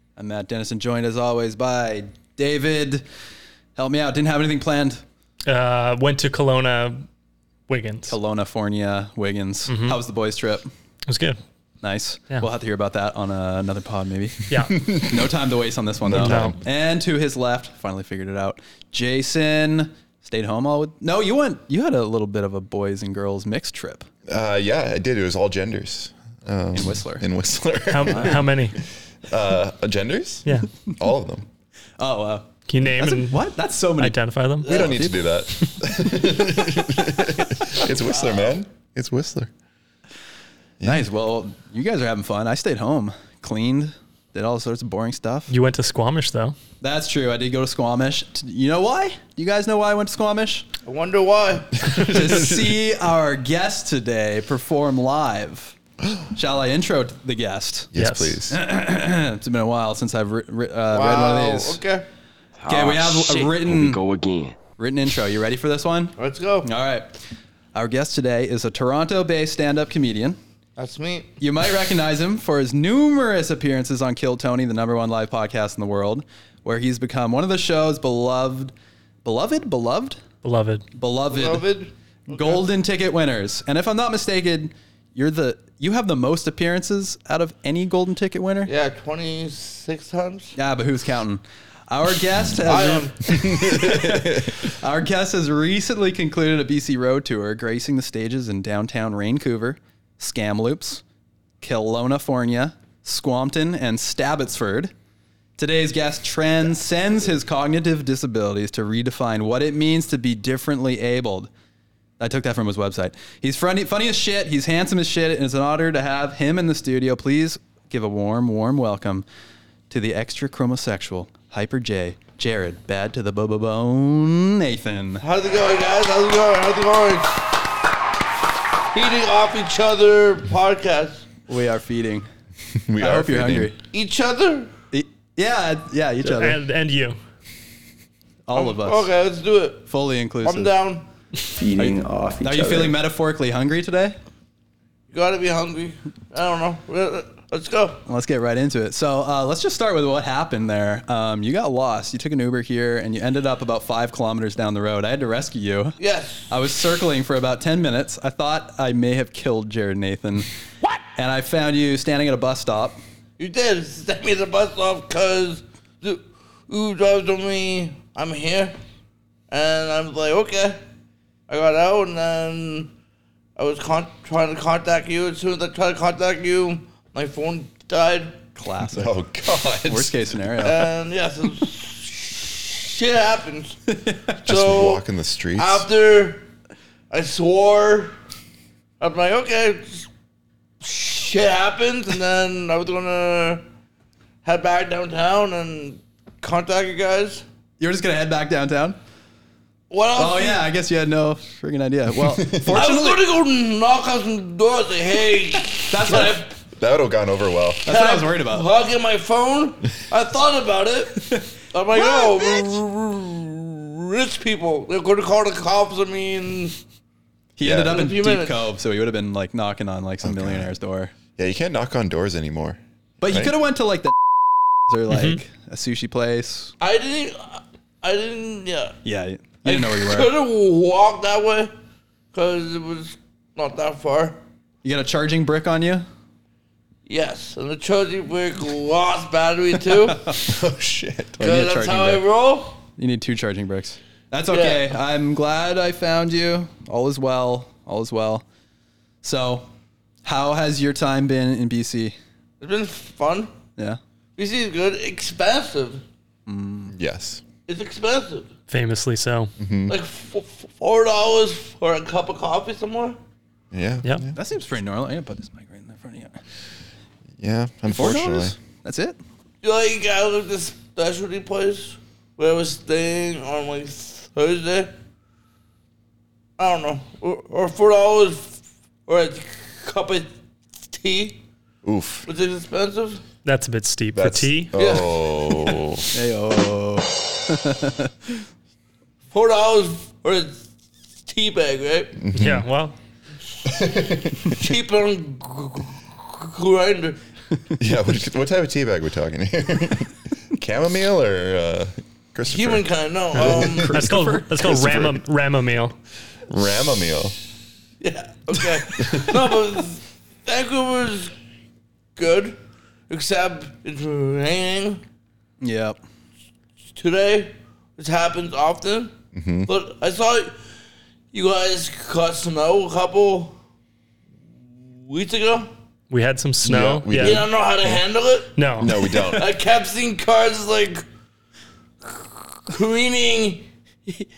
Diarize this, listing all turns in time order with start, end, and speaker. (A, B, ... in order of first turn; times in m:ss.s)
0:00.2-0:03.0 A
0:03.8-0:05.0 A
0:05.5-0:07.0 B
0:07.7-0:08.2 B
0:08.1-0:10.7 A
0:09.7-0:10.0 B
0:11.1-0:11.4 B
0:11.8-0:24.1 A
0:14.5-0:14.8 B
0:14.8-0:15.3 C
0:16.0-0:16.5 C
0:16.1-0:16.6 B
0:24.3-0:28.5 C
0:26.7-0:27.2 A
0:27.9-0:28.8 B
0:29.2-0:30.4 C
0:31.0-0:31.5 C
0:32.0-0:35.2 A
0:32.7-0:33.4 B
0:34.0-0:34.7 B
0:34.6-0:35.0 D
0:34.7-0:39.5 C
0:36.4-0:37.0 A
0:37.7-0:38.6 D
0:40.8-0:41.1 C
0:40.8-0:45.5 A
0:45.5-0:46.6 B
0:46.8-0:50.6 A
0:50.8-0:52.1 D
0:52.0-0:55.7 A
0:56.0-0:56.3 C
0:56.3-1:01.8 A
0:57.9-0:58.6 C
0:58.0-0:58.3 B
1:00.9-1:02.0 D
1:02.6-1:04.6 E
1:02.7-1:04.0 A
1:04.8-1:07.1 A
1:06.2-1:06.7 D
1:07.7-1:10.4 A
1:10.8-1:11.3 D
1:11.4-1:18.7 A
1:19.2-1:20.2 A
1:20.4-1:20.8 B
1:20.9-1:21.6 A
1:21.3-1:22.6 D
1:22.3-1:28.7 A
1:28.6-1:30.5 D
1:30.6-1:41.0 A
1:32.6-1:33.1 D
1:33.3-1:34.6 C
1:41.6-1:44.9 A
1:45.6-1:51.5 A
1:52.2-1:59.2 A
1:59.9-2:05.2 A
2:05.2-2:07.5 D
2:08.9-2:11.2 D
2:11.5-2:12.3 A
2:12.7-2:13.7 C
2:13.0-2:13.8 A
2:13.9-2:14.7 D
2:14.9-2:16.6 A
2:16.2-2:17.2 B
2:18.4-2:19.1 A
2:18.5-2:19.9 D
2:19.9-2:20.7 A
2:20.4-2:21.1 D
2:21.6-2:22.9 E
2:21.7-2:24.2 A
2:25.1-2:28.0 D
2:28.0-2:36.0 A
2:36.0-2:36.5 D
2:36.5-2:40.5 A
2:41.1-2:43.0 A
2:43.4-2:48.8 D
2:49.5-2:50.8 D
2:51.5-2:52.9 D
2:53.6-2:58.4 D
2:58.6-2:59.1 A
2:58.9-3:00.2 C
2:59.8-3:00.9 A
3:00.6-3:03.8 D
3:03.9-3:04.2 A
3:04.4-3:05.0 D
3:04.4-3:05.9 C
3:05.6-3:06.4 D
3:07.1-3:08.1 D
3:09.0-3:10.1 D
3:10.8-3:13.6 D
3:14.4-3:17.4 D
3:17.8-3:19.0 A
3:19.9-3:20.7 D
3:20.2-3:23.2 A
3:22.2-3:22.8 C
3:22.7-3:26.5 D
3:25.9-3:26.5 A
3:26.8-3:27.9 C
3:27.8-3:28.7 A
3:27.9-3:36.8 D
3:32.0-3:32.6 A
3:37.6-3:41.1 A
3:37.6-3:38.0 C
3:37.8-3:38.7 D
3:40.2-3:40.7 C
3:41.4-3:43.6 C
3:43.2-3:44.1 A
3:44.9-3:46.7 A
3:45.1-3:45.4 B
3:46.8-3:48.9 D
3:49.0-3:50.3 A
3:49.6-3:51.7 D
3:52.3-3:54.4 D
3:54.8-3:56.0 A
3:57.1-4:00.2 D
4:00.4-4:01.4 C
4:01.4-4:02.2 A
4:01.4-4:02.8 D
4:03.0-4:08.4 A
4:04.5-4:04.8 D
4:09.2-4:09.7 A
4:10.2-4:12.2 A
4:12.6-4:13.5 D
4:14.4-4:16.0 D
4:16.5-4:16.9 A
4:16.9-4:17.4 C
4:17.7-4:18.5 D
4:18.7-4:19.5 B
4:19.6-4:20.0 C
4:19.9-4:23.2 D
4:23.7-4:24.4 C
4:24.3-4:26.4 A
4:27.4-4:28.6 C
4:27.9-4:29.2 A
4:29.6-4:34.9 D
4:36.6-4:40.3 D
4:40.9-4:41.4 D
4:41.8-4:42.3 C
4:42.2-4:43.2 D
4:43.4-4:44.7 B
4:44.1-4:46.0 C
4:44.7-4:45.5 D
4:46.1-4:48.4 A
4:49.3-4:50.7 D
4:51.2-4:52.2 D
4:52.2-4:52.7 C
4:52.3-4:53.0 B
4:53.6-4:54.6 C
4:53.7-4:57.2 D
4:57.8-5:02.9 C
5:02.5-5:03.9 D
5:03.3-5:05.9 B
5:03.4-5:05.1 A
5:03.4-5:04.1 C
5:04.6-5:05.1 C
5:06.5-5:07.4 C
5:08.0-5:11.3 D
5:09.0-5:09.3 C
5:12.2-5:12.6 D
5:13.1-5:15.0 D
5:15.6-5:16.0 A
5:17.0-5:19.1 D
5:19.3-5:19.7 C
5:19.7-5:20.5 D
5:21.3-5:23.6 D
5:25.1-5:25.7 D
5:26.1-5:27.5 B
5:26.6-5:28.0 C
5:27.2-5:28.5 D
5:28.6-5:28.9 B
5:28.8-5:29.5 C
5:29.3-5:31.0 D
5:32.0-5:34.3 D